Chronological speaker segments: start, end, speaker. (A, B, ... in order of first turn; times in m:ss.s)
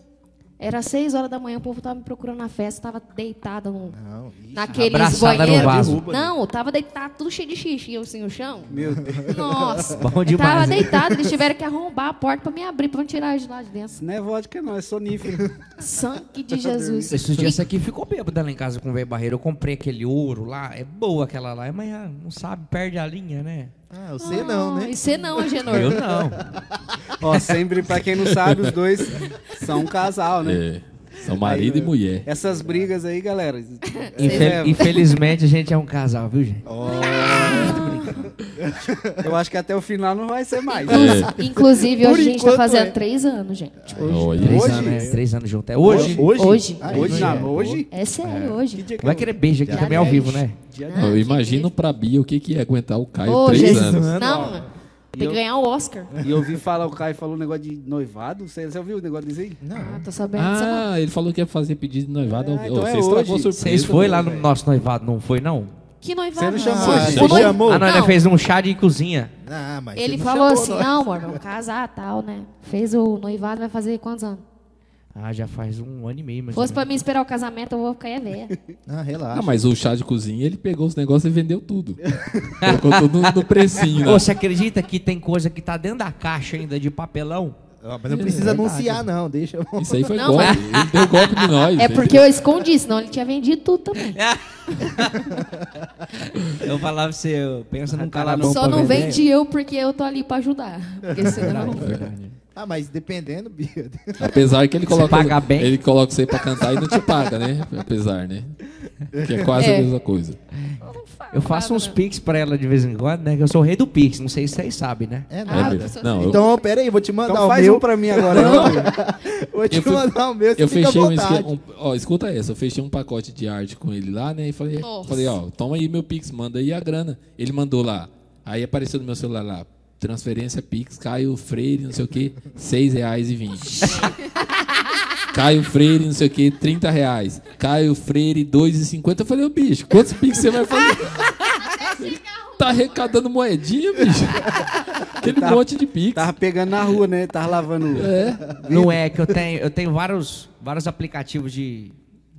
0:00.6-0:04.0 A
0:03.9-0:06.3 B
0:04.5-0:08.7 A
0:04.7-0:06.0 C
0:08.7-0:09.5 D
0:08.7-0:10.0 B
0:09.3-0:14.0 A
0:09.9-0:11.0 C
0:13.9-0:15.6 D
0:15.8-0:17.6 A
0:16.5-0:17.5 D
0:17.1-0:23.7 C
0:23.9-0:27.4 B
0:24.2-0:26.0 A
0:25.7-0:26.4 C
0:25.7-0:26.0 E
0:27.2-0:30.6 D
0:28.0-0:28.7 E
0:30.4-0:32.3 E
0:31.4-0:35.0 D
0:32.5-0:32.9 B
0:33.9-0:35.0 A
0:34.2-0:36.6 C
0:36.6-0:39.3 B
0:37.1-0:38.2 A
0:39.2-0:41.5 D
0:40.8-0:43.9 A
0:40.9-0:41.3 E
0:41.4-0:43.0 B
0:43.8-0:45.2 B
0:43.9-0:45.2 D
0:44.0-0:44.9 E
0:44.4-0:46.3 C
0:45.8-0:47.8 B
0:45.8-0:46.3 D
0:46.2-0:48.9 A
0:46.9-0:51.2 D
0:47.0-0:47.8 E
0:49.0-0:50.6 C
0:49.6-0:50.4 B
0:49.7-0:51.7 A
0:50.9-0:54.1 E
0:53.2-0:56.2 A
0:53.4-0:55.4 B
0:54.1-0:54.6 D
0:56.1-0:56.6 B
0:56.2-0:59.6 D
0:59.6-1:00.0 B
0:59.7-1:00.9 A
1:00.4-1:04.3 E
1:02.3-1:04.5 D
1:03.6-1:05.7 C
1:06.0-1:08.2 A
1:06.3-1:07.5 D
1:06.5-1:07.9 B
1:06.9-1:09.3 C
1:07.0-1:07.5 E
1:09.4-1:11.4 B
1:09.9-1:14.4 A
1:15.1-1:16.9 C
1:16.5-1:18.5 A
1:18.8-1:19.6 B
1:19.3-1:22.0 E
1:22.1-1:22.5 B
1:22.6-1:24.3 E
1:23.9-1:27.6 C
1:27.8-1:30.2 B
1:28.1-1:28.6 E
1:28.2-1:29.0 C
1:29.8-1:32.2 E
1:30.1-1:30.8 A
1:30.4-1:31.2 C
1:31.8-1:34.2 A
1:34.0-1:35.4 C
1:36.3-1:39.2 C
1:37.9-1:39.1 D
1:38.4-1:41.9 A
1:41.1-1:41.6 B
1:41.2-1:42.4 C
1:42.5-1:44.4 B
1:44.2-1:48.6 E
1:44.9-1:45.7 C
1:49.1-1:49.6 B
1:49.1-1:50.4 E
1:49.6-1:49.9 A
1:50.8-1:52.0 A
1:51.3-1:55.3 C
1:55.3-2:01.5 B
1:55.5-1:56.5 A
1:55.5-1:56.4 E
1:57.2-1:58.9 D
1:58.3-1:58.9 E
1:59.7-2:14.1 E
2:04.8-2:05.3 A
2:13.8-2:14.4 A
2:15.3-2:21.3 E
2:21.8-2:22.1 A
2:21.9-2:26.3 E
2:25.2-2:25.6 D
2:26.1-2:29.0 D
2:27.9-2:28.5 E
2:28.7-2:32.0 C